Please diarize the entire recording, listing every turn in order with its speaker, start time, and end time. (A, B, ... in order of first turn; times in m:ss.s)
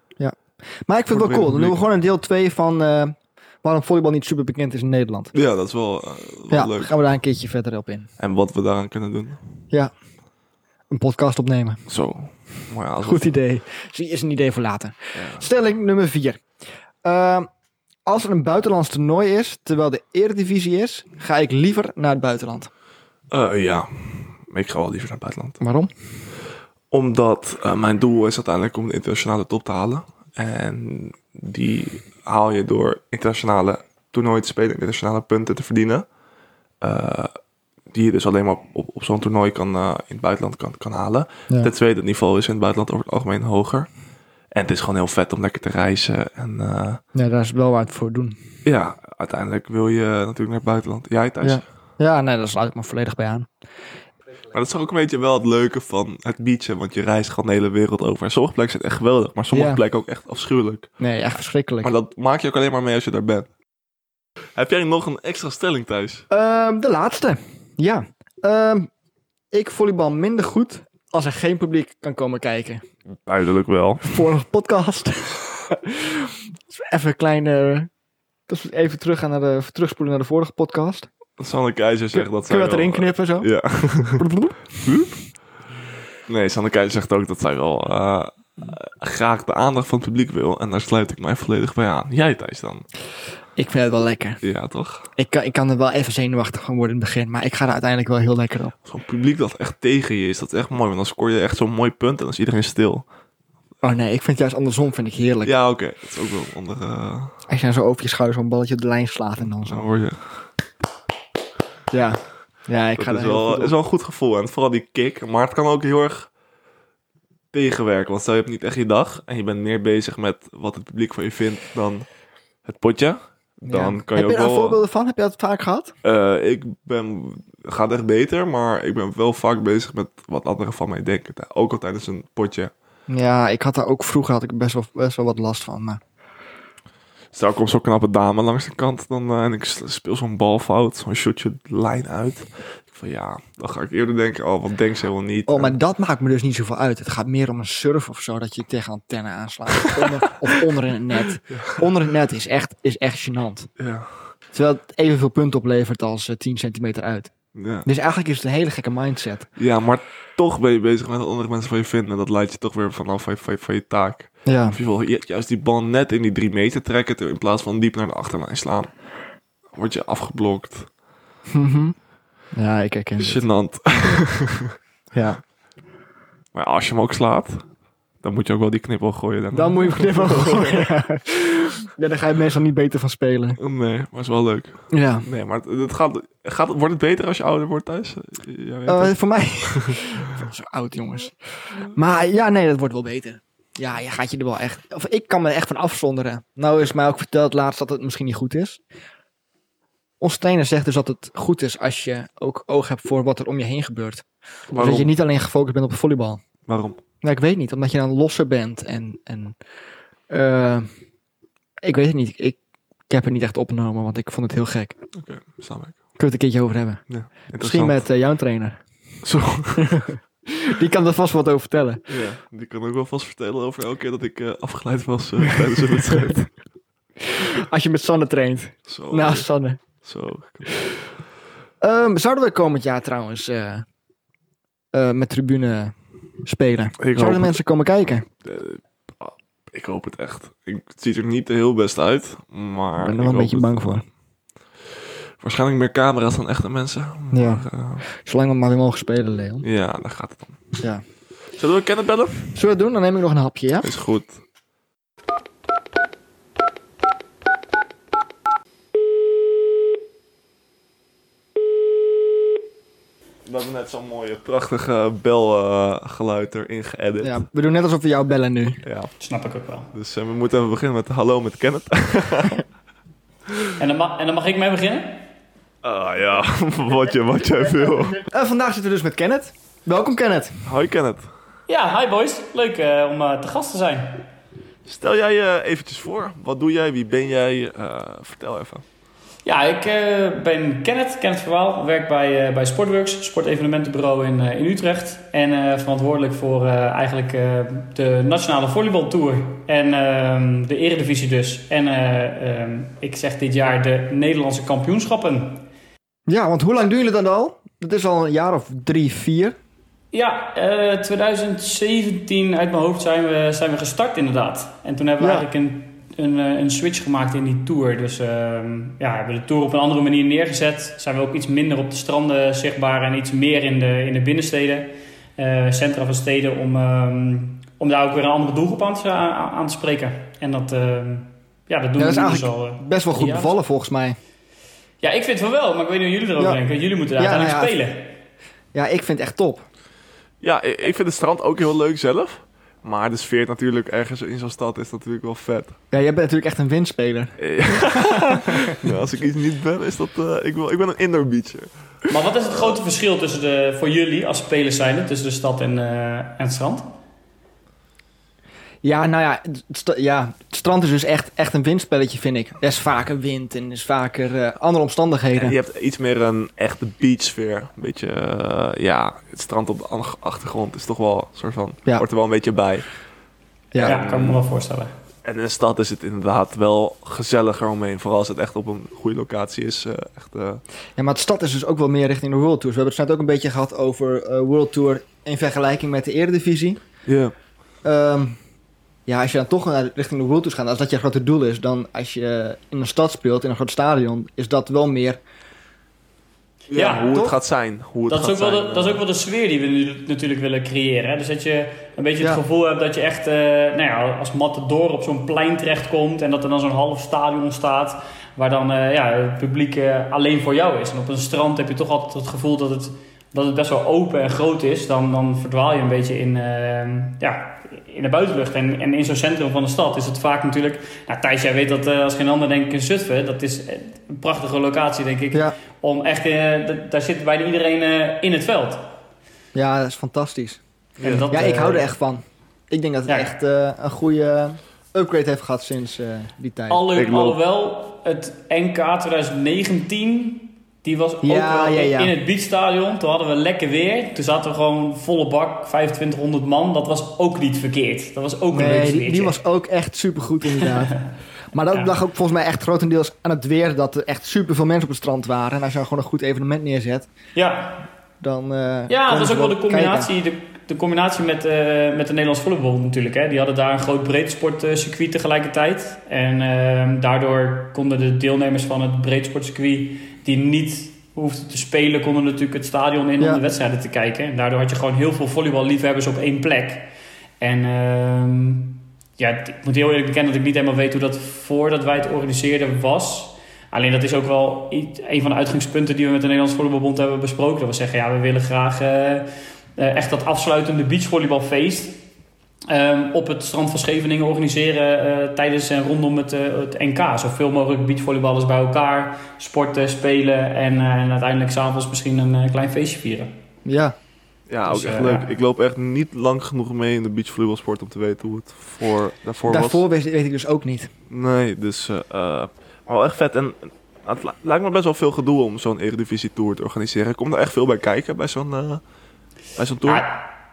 0:00.2-0:05.3 A
0:01.1-0:01.8 B
0:05.3-0:06.9 B
0:06.5-0:08.1 A
0:08.2-0:09.4 B
0:10.9-0:11.8 A
0:11.9-0:13.4 B
0:13.0-0:16.4 A
0:15.2-0:15.5 B
0:17.0-0:17.5 A
0:18.0-0:22.7 A
0:23.3-0:25.6 B
0:25.6-0:25.9 A
0:26.9-0:36.0 B
0:36.8-0:37.3 B
0:37.9-0:43.9 B
0:44.5-0:47.0 B
0:47.1-0:48.4 A
0:48.6-0:51.6 B
0:51.4-0:53.5 A
0:54.5-1:00.9 B
0:59.5-0:59.8 A
1:01.0-1:01.9 A
1:01.8-1:03.5 B
1:04.5-1:06.2 B
1:06.3-1:08.9 A
1:09.5-1:12.8 A
1:13.2-1:14.2 B
1:14.0-1:17.9 A
1:18.5-1:21.1 A
1:21.4-1:24.2 B
1:22.1-1:23.5 A
1:24.1-1:24.6 A
1:24.8-1:25.3 B
1:26.2-1:32.8 B
1:33.6-1:34.4 A
1:34.4-1:35.1 B
1:35.2-1:38.7 A
1:38.8-1:43.0 B
1:43.8-1:45.5 A
1:45.4-1:47.4 B
1:47.5-1:49.9 A
1:49.6-1:50.5 B
1:51.9-1:53.7 A
1:53.0-1:56.3 B
1:57.5-2:02.0 B
2:02.6-2:04.8 B
2:03.6-2:05.9 A
2:06.0-2:12.7 B
2:13.1-2:16.0 A
2:17.3-2:25.8 B
2:25.5-2:33.7 A
2:31.5-2:31.8 B
2:33.8-2:34.3 B
2:34.5-2:37.3 A
2:37.5-2:37.9 B
2:37.8-2:39.5 A
2:39.6-2:49.0 B
2:44.4-2:44.8 A
2:49.7-2:50.9 B
2:51.5-2:52.0 A
2:52.5-2:53.4 A
2:53.2-2:54.8 B
2:55.1-2:55.4 A
2:56.5-2:57.7 B
2:58.2-3:00.9 B
2:59.5-3:03.6 A
3:03.6-3:10.1 B
3:04.9-3:05.3 A
3:08.9-3:18.8 A
3:20.2-3:26.4 A
3:24.7-3:25.1 B
3:26.7-3:27.0 B
3:27.2-3:29.6 A
3:30.3-3:30.9 A
3:31.8-3:32.6 A
3:33.1-3:35.0 A
3:35.2-3:36.0 B
3:36.2-3:37.0 A
3:37.1-3:38.0 B
3:37.6-3:38.8 A
3:39.2-3:40.0 B
3:39.8-3:42.0 A
3:42.1-3:46.6 B
3:47.4-3:49.8 A
3:48.9-3:49.5 B
3:50.0-3:51.0 B
3:51.8-3:53.8 A
3:54.9-3:58.2 A
3:57.0-3:57.6 B
3:58.4-4:04.0 B
4:03.0-4:04.0 A
4:05.4-4:08.0 B
4:07.3-4:09.6 A
4:09.6-4:10.6 B
4:11.6-4:12.6 B
4:12.5-4:13.9 A
4:13.8-4:14.4 B
4:23.4-4:27.4 B
4:27.2-4:28.8 A
4:28.8-4:29.1 B
4:29.2-4:29.9 C
4:29.9-4:32.6 B
4:33.8-4:35.2 C
4:35.8-4:38.2 B
4:38.2-4:40.6 A
4:40.6-4:41.3 B
4:41.7-4:44.2 C
4:44.8-4:48.8 B
4:49.4-5:05.6 C
5:06.3-5:09.6 A
5:10.1-5:33.5 C
5:15.2-5:15.4 A
5:32.0-5:34.2 A
5:35.0-5:38.1 C
5:37.2-5:37.7 A
5:38.7-5:39.6 A
5:40.4-5:45.8 B
5:45.9-5:48.8 A
5:47.4-5:51.7 B
5:52.1-5:56.9 C
5:58.8-6:05.6 A
6:05.4-6:12.9 B
6:13.7-6:14.0 A
6:13.8-6:14.4 B
6:13.8-6:14.9 C
6:15.2-6:20.6 B
6:21.0-6:26.8 A
6:27.0-6:27.3 B
6:27.8-6:28.4 A
6:29.1-6:35.2 A
6:36.7-6:39.0 B
6:36.7-6:37.0 C
6:37.0-6:37.3 A
6:38.1-7:08.9 C
7:09.5-7:10.6 A
7:11.0-7:11.3 B
7:11.0-7:11.9 C
7:11.3-7:16.9 A
7:13.1-7:13.4 C
7:16.7-7:29.4 C
7:16.9-7:17.4 B
7:21.2-7:22.1 A
7:28.5-7:37.1 A
7:37.3-7:37.8 C
7:38.2-7:40.1 A
7:38.9-7:56.9 C
7:57.4-8:12.0 C
8:12.7-8:23.3 C
8:23.6-8:24.0 A
8:24.5-8:29.8 B
8:24.7-8:25.3 C
8:29.5-8:30.9 A
8:31.1-8:38.8 B
8:39.6-8:40.0 B
8:39.8-8:40.2 C